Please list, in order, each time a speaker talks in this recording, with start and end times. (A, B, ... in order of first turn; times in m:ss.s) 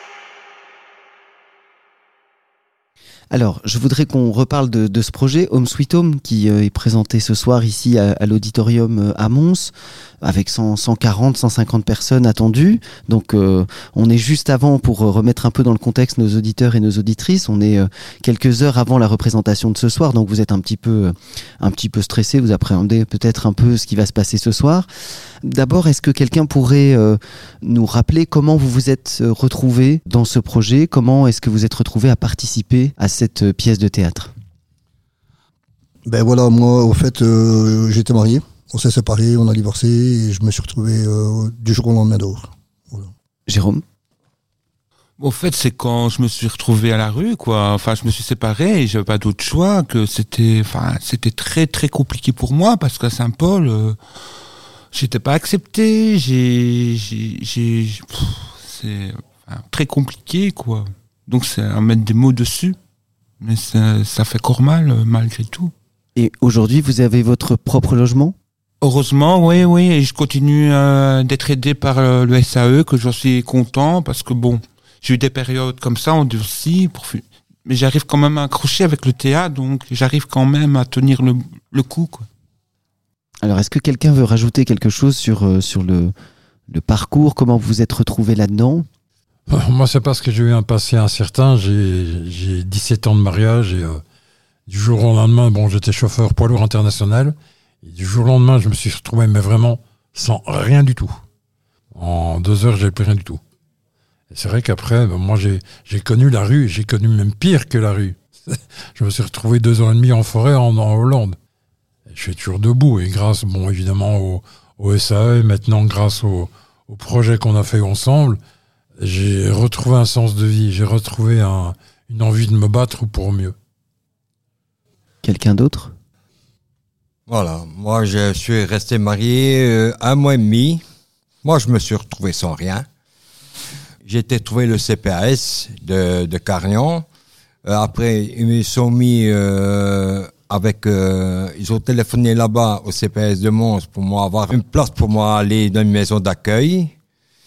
0:03.3-0:24.9 A
0:25.4-0:34.3 A
0:36.0-0:43.1 B
0:43.5-0:43.8 A
0:45.2-0:54.0 C
0:54.9-1:02.8 C
1:03.4-1:05.7 C
1:06.2-1:08.3 A
1:08.8-1:22.3 C
1:23.4-1:26.1 A
1:26.7-1:28.9 A
1:29.5-1:34.0 D
1:34.7-1:41.2 D
1:41.9-1:43.4 D
1:44.3-1:51.4 D
1:52.1-1:58.4 D
1:59.0-2:03.5 D
2:05.2-2:05.9 A
2:07.3-2:10.8 E
2:11.4-2:12.8 E
2:14.0-2:17.1 E
2:17.7-2:26.9 E